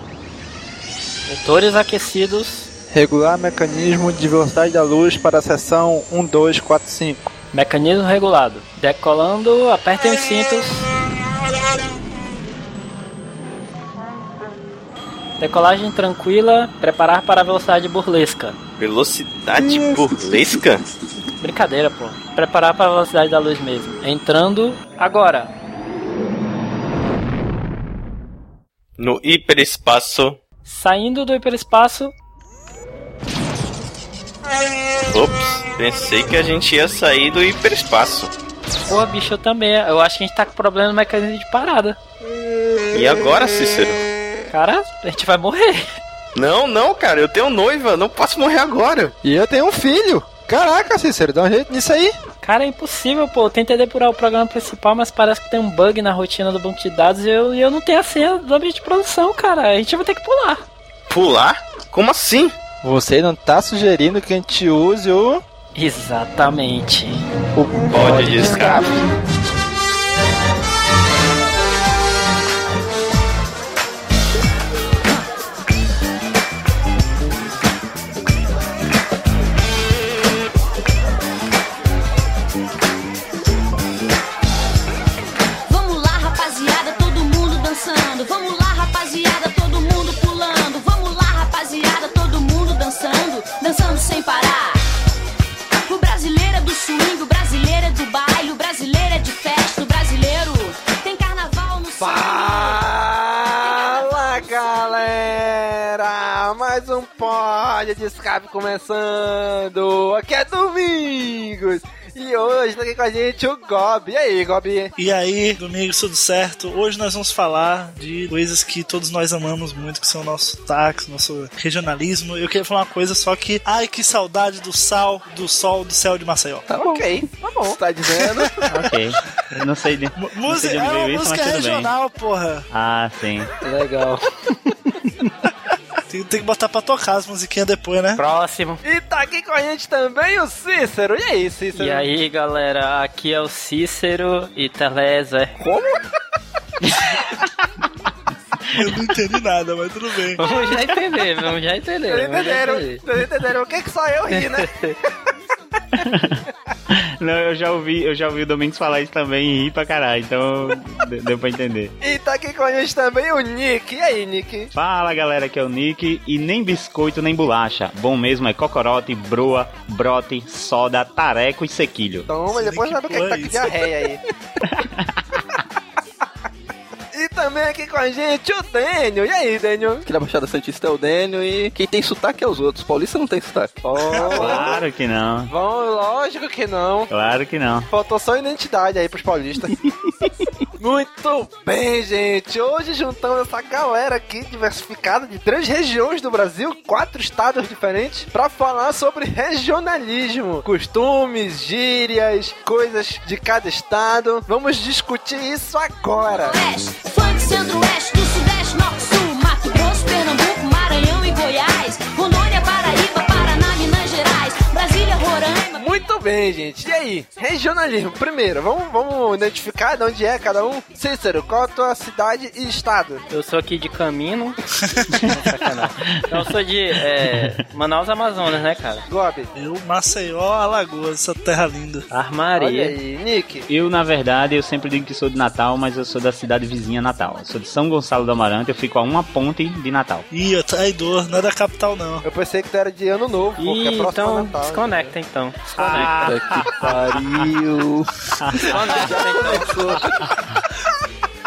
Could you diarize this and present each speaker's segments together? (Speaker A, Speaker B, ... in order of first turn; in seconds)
Speaker A: 1.3-2.7, 7.5-10.9, 15.4-18.6, 21.4-25.5, 30.7-32.1, 38.9-42.0, 44.5-46.0, 52.4-60.6, 65.8-67.2, 133.6-135.3, 138.2-138.8, 141.8-145.5, 150.4-153.0, 154.3-155.0, 223.3-229.1, 232.1-232.9, 243.6-246.2, 248.7-249.8
Speaker B: 2.9-7.3, 49.2-52.1, 62.8-65.4, 67.6-67.9, 102.0-114.9, 126.8-127.8, 138.8-142.1, 152.1-154.7, 162.0-164.7, 172.3-174.2, 177.1-180.1, 183.8-184.8, 185.5-187.1, 187.9-189.8, 190.8-206.6, 215.8-223.2, 229.1-229.5, 232.6-233.7, 242.2-245.2, 249.1-249.7
Speaker C: 18.8-20.8, 29.0-30.4, 35.1-38.3, 42.9-44.0, 46.4-49.1, 61.1-62.6, 67.9-68.9
Speaker D: 85.7-94.8, 95.9-102.8, 103.7-104.0, 206.2-216.0
Speaker E: 115.0-126.7, 128.2-128.9, 130.2-132.7, 136.1-138.2, 148.7-150.4, 172.5-173.8, 229.6-232.1, 240.3-242.2
Speaker F: 126.7-128.7, 145.6-146.0, 180.1-184.4, 245.9-250.3
Speaker G: 128.7-131.9, 132.7-133.5, 156.0-161.9, 164.7-172.3, 174.6-175.2, 184.3-185.5, 187.1-187.9, 226.2-226.4, 233.7-240.3, 245.8-247.5, 248.4-249.0